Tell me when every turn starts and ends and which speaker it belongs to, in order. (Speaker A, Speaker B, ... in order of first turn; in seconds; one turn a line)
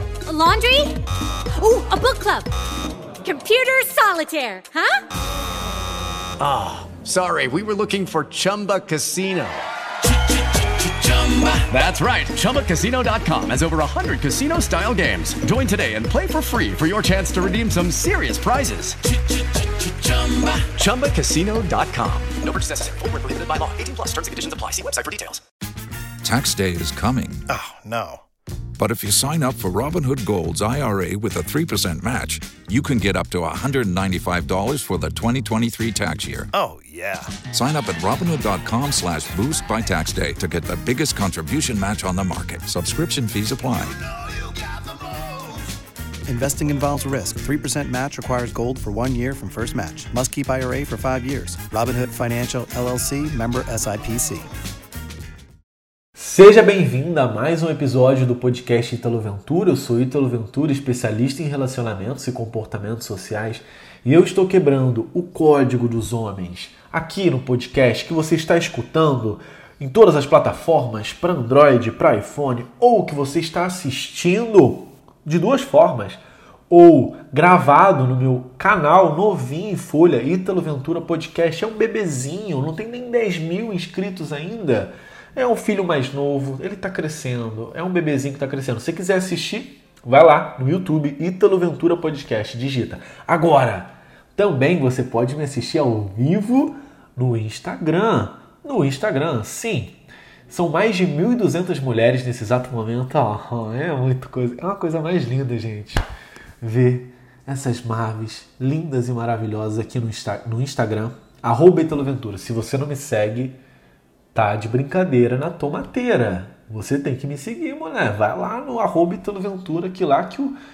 Speaker A: 0.3-1.0
Speaker A: 1.6-2.5
Speaker A: 3.2-5.0
Speaker B: 6.4-9.7
Speaker B: 10.6-19.0
Speaker B: 19.6-25.4
Speaker C: 26.2-27.4
Speaker D: 27.5-28.2
Speaker C: 28.8-36.5
Speaker D: 36.5-37.4
Speaker C: 37.5-44.0
Speaker D: 44.0-45.7
Speaker D: 46.3-54.5
Speaker E: 56.2-100.0
Speaker E: 100.5-106.0
Speaker E: 106.6-113.6
Speaker E: 114.3-120.6